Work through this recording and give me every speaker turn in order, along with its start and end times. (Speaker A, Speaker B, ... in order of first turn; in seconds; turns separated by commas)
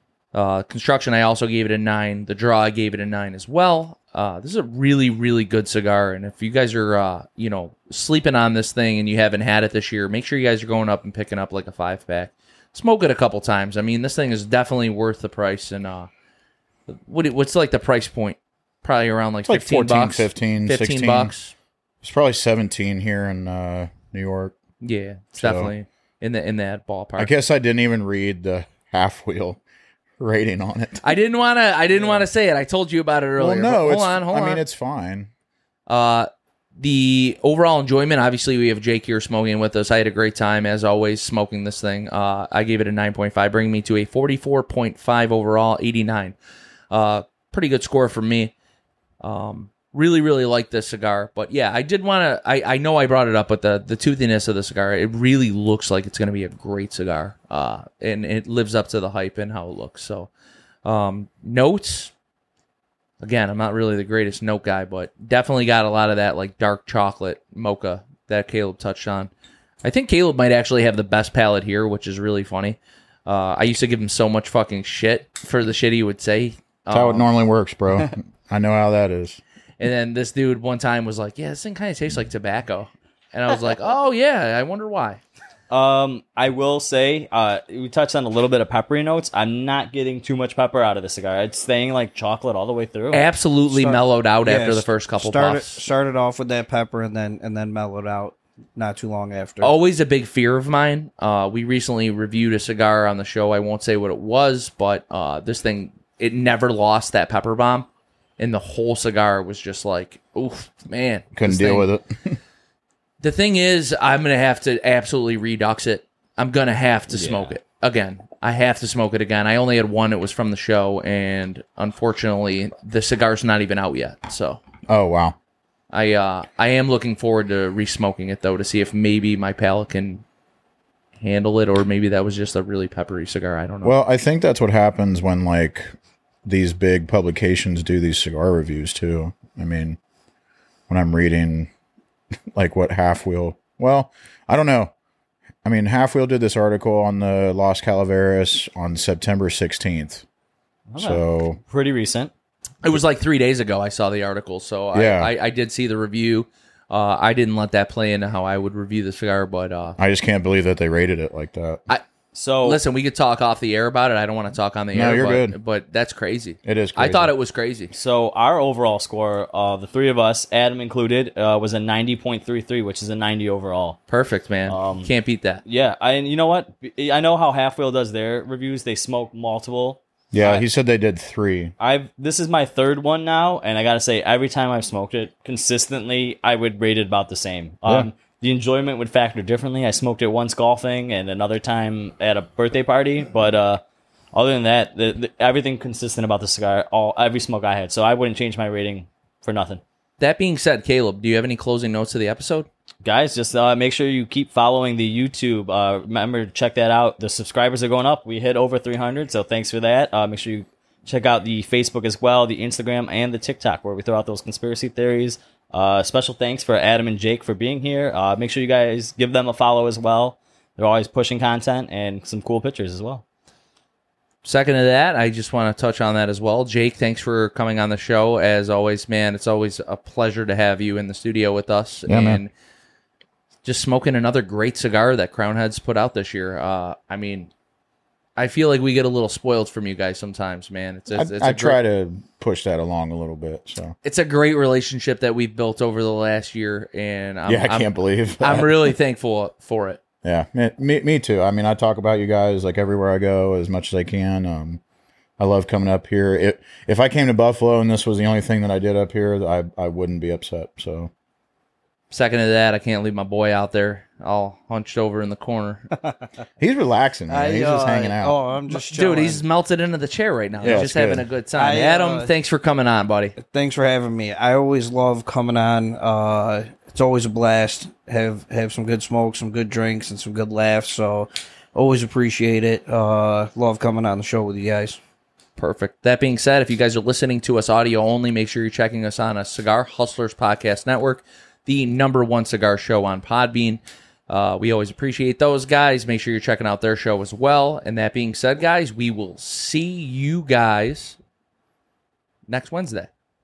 Speaker A: 0.3-16.1, Speaker A: 16.9-21.5, Speaker B: 19.4-21.3, Speaker B: 22.0-24.6, Speaker A: 24.8-27.3, Speaker B: 25.3-25.7, Speaker B: 27.2-29.6, Speaker B: 30.2-31.2, Speaker A: 31.0-34.6, Speaker B: 33.4-35.3, Speaker A: 35.9-46.4, Speaker A: 46.9-48.5, Speaker A: 49.2-60.3, Speaker A: 60.9-62.1, Speaker A: 63.2-69.3, Speaker A: 69.8-77.3, Speaker B: 76.9-79.4, Speaker A: 79.8-85.2, Speaker C: 85.7-93.3, Speaker A: 93.1-95.9, Speaker D: 93.7-99.7, Speaker A: 99.6-107.9, Speaker A: 108.4-111.9, Speaker B: 111.3-112.4, Speaker A: 113.2-124.6, Speaker C: 117.1-117.5, Speaker B: 124.9-125.4, Speaker A: 125.9-130.2, Speaker A: 131.2-134.0, Speaker B: 133.8-135.9, Speaker B: 136.4-140.0, Speaker B: 140.9-141.7, Speaker B: 142.5-144.9, Speaker B: 145.6-150.2, Speaker C: 150.9-152.3, Speaker B: 151.0-151.6, Speaker A: 152.8-160.0, Speaker B: 154.9-155.3, Speaker B: 160.0-161.8, Speaker C: 162.3-162.8, Speaker A: 162.6-167.9, Speaker B: 164.9-165.6, Speaker B: 166.7-167.3, Speaker C: 167.9-174.0, Speaker A: 174.1-175.6, Speaker C: 174.7-175.1, Speaker C: 175.7-180.7, Speaker B: 180.3-181.7, Speaker C: 181.8-193.8, Speaker C: 194.3-199.8, Speaker A: 200.2-202.7, Speaker C: 203.0-223.2, Speaker A: 224.4-232.5, Speaker B: 232.1-232.4, Speaker A: 233.7-237.5, Speaker A: 238.4-241.8, Speaker B: 241.1-243.9, Speaker A: 244.0-250.0, Speaker B: 247.5-248.9, Speaker B: 250.2-254.8, Speaker B: 255.4-261.1, Speaker A: 262.1-265.8, Speaker B: 266.6-268.4, Speaker D: 267.3-269.4, Speaker A: 268.7-273.4, Speaker B: 270.6-271.3, Speaker D: 271.6-272.3, Speaker D: 273.4-285.0, Speaker A: 285.6-301.2, Speaker A: 302.5-303.1